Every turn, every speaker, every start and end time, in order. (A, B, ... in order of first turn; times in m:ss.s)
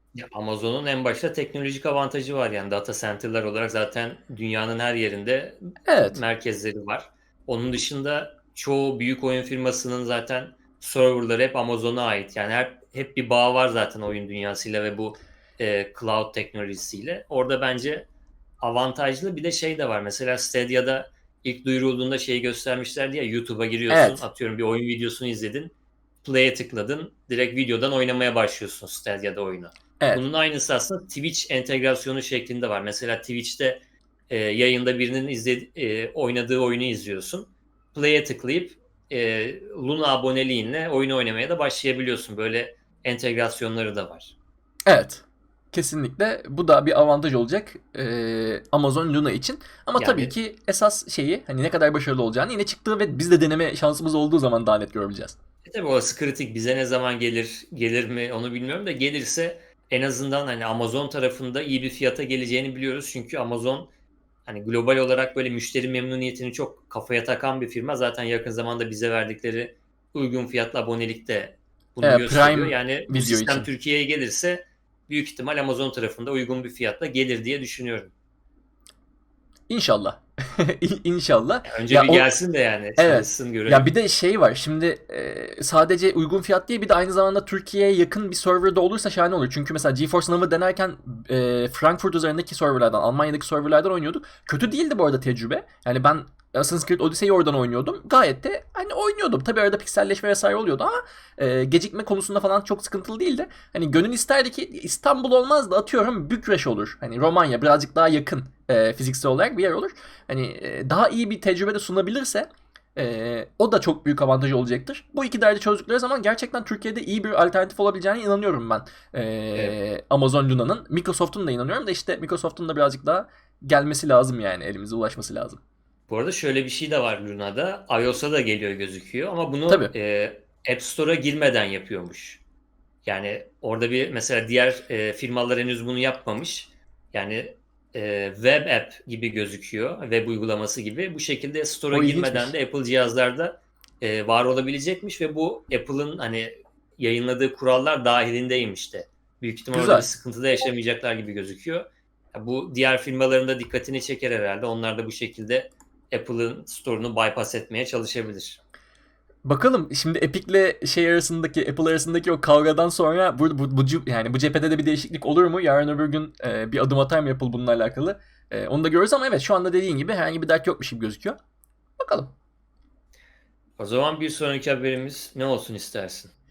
0:00.2-0:18.1 A
0:05.9-0:06.2 B
0:18.6-0:25.7 A
0:23.9-0:24.2 B
0:26.2-0:44.4 A
0:44.9-0:55.4 B
0:50.0-0:50.3 A
0:55.7-1:03.9 A
1:04.5-1:18.1 A
1:12.0-1:13.7 B
1:19.7-1:22.3 B
1:21.7-1:23.9 A
1:23.0-2:05.6 B
2:06.1-2:12.4 A
2:09.7-2:09.9 B
2:13.0-2:38.6 A
2:21.9-2:22.5 B
2:29.7-2:30.1 B
2:39.4-2:51.4 B
2:52.0-2:52.3 B
2:53.8-2:56.3 A